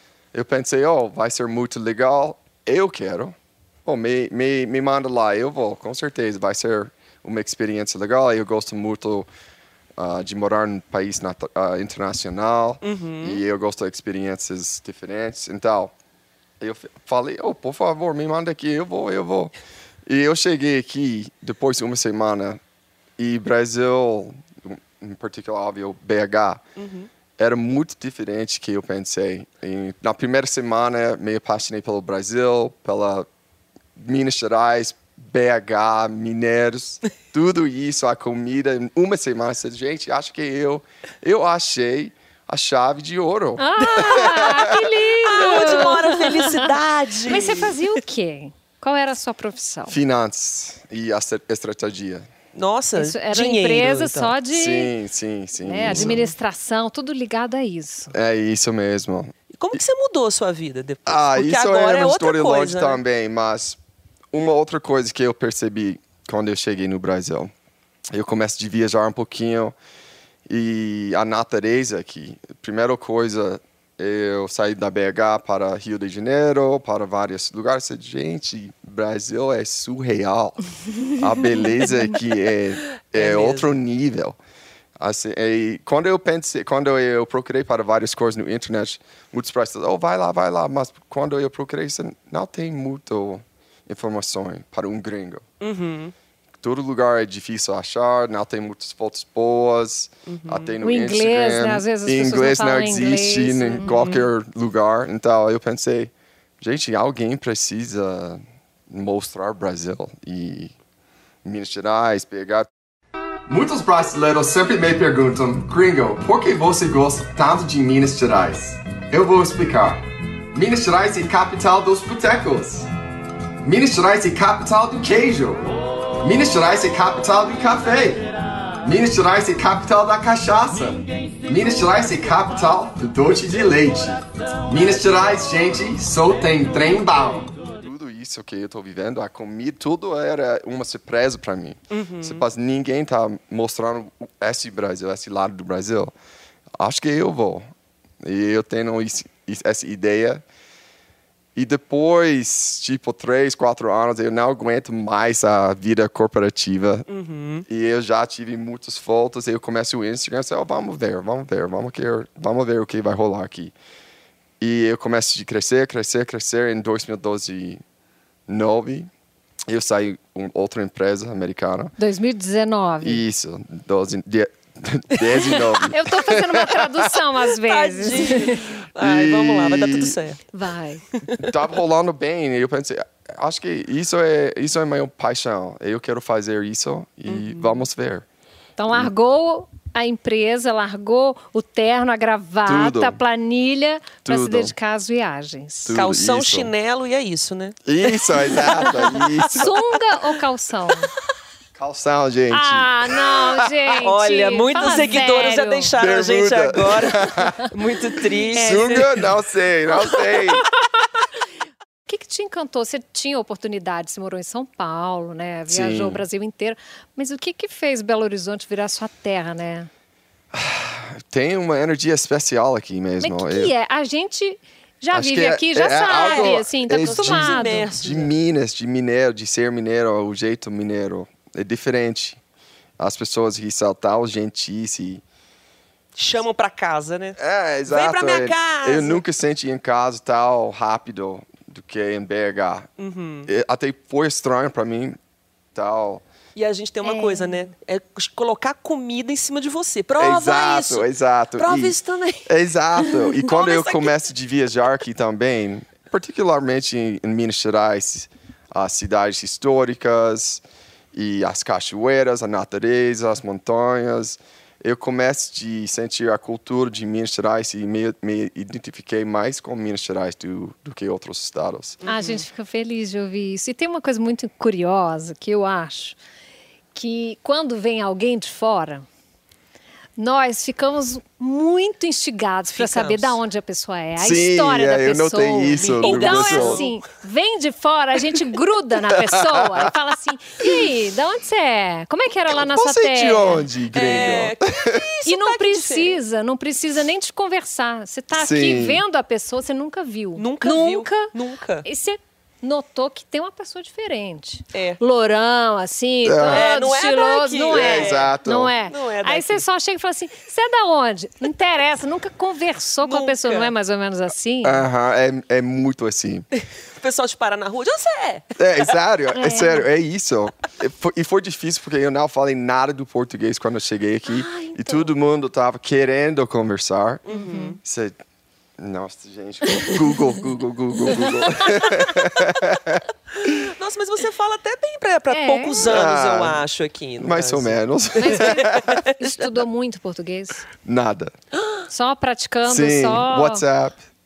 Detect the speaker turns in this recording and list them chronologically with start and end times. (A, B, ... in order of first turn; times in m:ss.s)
0:00.3-0:09.3 A
0:10.0-0:15.9 A
0:12.8-0:13.4 B
0:16.6-0:19.5 A
0:20.0-0:22.6 A
0:23.2-0:26.6 A
0:26.8-0:27.1 B
0:27.4-0:33.3 A
0:34.0-0:44.8 A
0:43.6-0:46.7 C
0:43.8-0:47.8 B
0:47.2-0:50.0 C
0:49.9-0:52.3 A
0:52.5-0:54.3 B
0:53.0-0:54.9 C
0:54.5-0:56.3 A
0:55.6-0:58.1 C
0:55.8-0:56.3 B
0:58.1-0:59.8 A
0:59.5-1:03.0 B
1:01.1-1:03.8 A
1:04.3-1:07.5 A
1:08.1-1:09.7 A
1:10.5-1:20.6 A
1:21.1-1:24.4 A
1:23.1-1:23.7 B
1:25.0-1:35.4 A
1:35.6-1:36.1 B
1:36.6-1:50.7 A
1:40.3-1:40.8 B
1:40.8-1:43.9 C
1:43.8-1:44.3 B
1:51.4-1:52.7 A
1:53.5-2:02.9 A
2:03.6-2:08.2 A
2:08.8-2:26.1 A
2:21.9-2:22.4 B
2:26.8-2:27.7 A
2:28.2-2:30.4 A
2:31.5-2:37.0 A
2:37.1-2:37.6 B
2:37.7-2:43.7 A
2:44.6-2:47.8 A
2:48.5-2:49.1 A
2:49.7-2:51.9 A
2:52.0-2:53.2 C
2:53.0-2:57.2 A
2:55.9-2:58.7 C
2:57.6-3:00.4 B
2:59.0-3:00.2 A
3:00.5-3:01.0 C
3:01.1-3:01.5 B
3:01.4-3:08.2 A
3:07.3-3:07.8 B
3:08.8-3:16.0 C
3:12.6-3:13.2 A
3:14.2-3:14.7 A
3:15.8-3:16.7 A
3:15.9-3:19.7 B
3:17.8-3:19.7 A
3:18.8-3:21.1 C
3:21.7-3:23.7 A
3:22.5-3:25.9 C
3:24.0-3:29.2 B
3:26.0-3:27.7 A
3:28.5-3:29.1 C
3:28.5-3:30.7 A
3:30.3-3:30.7 C
3:32.1-3:39.9 C
3:35.7-3:36.2 A
3:40.5-3:43.7 A
3:43.2-3:47.9 C
3:45.1-3:52.4 A
3:46.1-3:48.3 B
3:53.0-3:55.2 A
3:56.2-3:59.2 B
3:57.4-4:02.9 A
4:03.0-4:03.5 B
4:03.5-4:05.2 A
4:05.7-4:06.2 A
4:06.6-4:14.2 B
4:07.0-4:07.6 C
4:10.2-4:11.9 A
4:12.4-4:20.6 A
4:21.1-4:32.0 A
4:32.0-4:32.4 B
4:32.0-4:36.2 C
4:36.9-4:39.0 C
4:40.2-4:53.7 C
4:42.7-4:43.4 B
4:44.2-4:46.8 A
4:45.7-4:46.9 B
4:49.1-4:49.9 A
4:52.5-4:55.0 A
4:53.9-4:56.2 B
4:55.2-5:14.8 C
4:58.3-4:59.0 A
5:00.4-5:01.8 B
5:04.7-5:05.0 B
5:06.2-5:06.7 A
5:06.5-5:08.3 B
5:07.7-5:08.7 A
5:08.9-5:09.6 B
5:13.0-5:13.7 B
5:14.6-5:16.4 A
5:16.6-5:18.9 B
5:18.6-5:27.2 A
5:19.3-5:19.8 C
5:24.2-5:25.1 B
5:27.2-5:27.8 B
5:27.3-5:27.8 C
5:27.8-5:28.2 A
5:28.8-5:33.6 A
5:29.8-5:30.4 C
5:31.4-5:32.0 C
5:33.4-5:39.6 B
5:35.3-5:35.8 C
5:35.8-5:36.6 A
5:37.2-5:38.9 A
5:38.2-5:40.7 C
5:40.8-5:41.3 A
5:41.6-5:41.8 B
5:41.9-5:43.6 C
5:42.6-5:44.0 A